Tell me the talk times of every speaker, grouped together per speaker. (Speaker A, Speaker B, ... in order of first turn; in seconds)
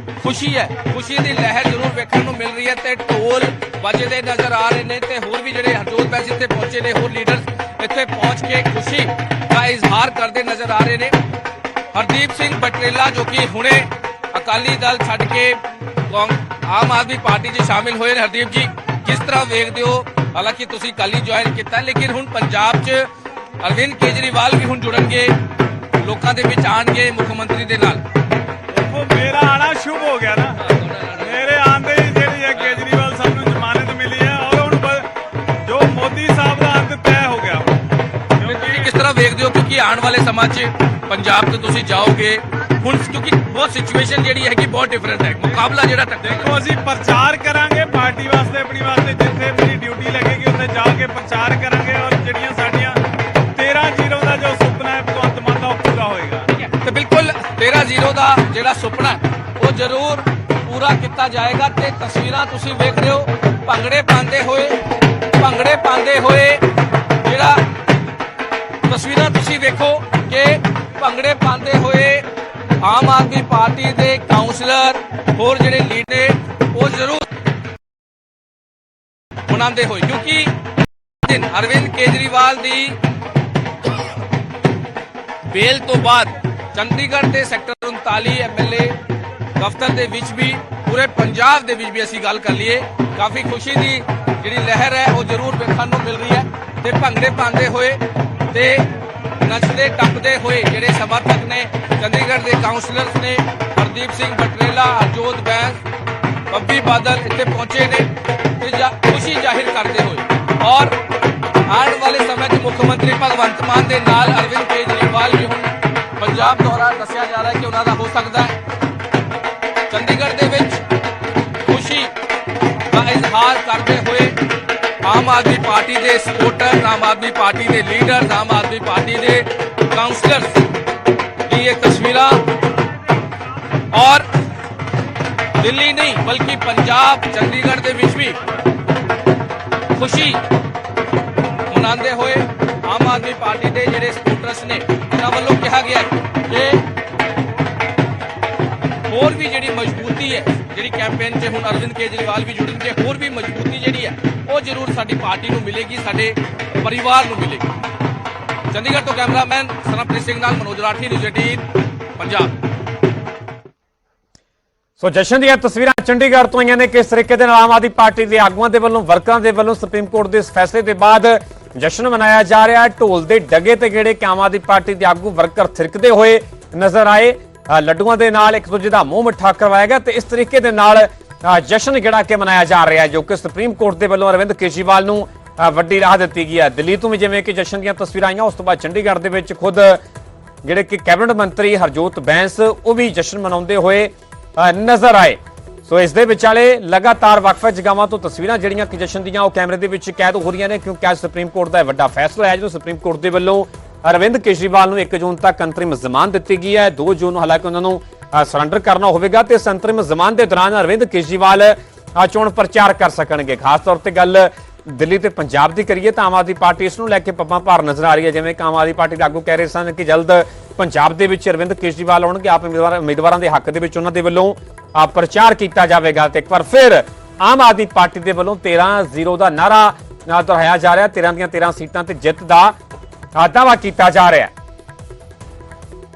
Speaker A: 0.2-11.1, 11.9-15.6, 16.1-23.1, 23.6-25.4, 26.0-28.0, 30.6-31.6, 32.5-32.8, 38.4-46.5, 56.5-64.8, 65.3-66.7, 67.2-67.6, 68.9-72.2, 72.8-77.2, 79.5-80.5, 81.2-83.0, 85.5-89.0, 89.6-98.9, 99.4-105.8, 106.5-110.9, 111.7-118.5, 119.9-120.8, 121.7-122.1, 122.9-124.3, 125.0-130.6, 131.5-132.4, 133.9-134.2, 135.6-138.4, 139.9-140.4, 141.7-146.8, 149.1-157.7, 158.7-161.6, 162.2-162.5
Speaker B: 28.7-30.6, 31.2-35.1, 35.6-37.7, 38.4-38.9, 46.2-53.0, 53.5-56.5
Speaker C: 165.0-190.0, 190.6-232.7, 233.3-234.5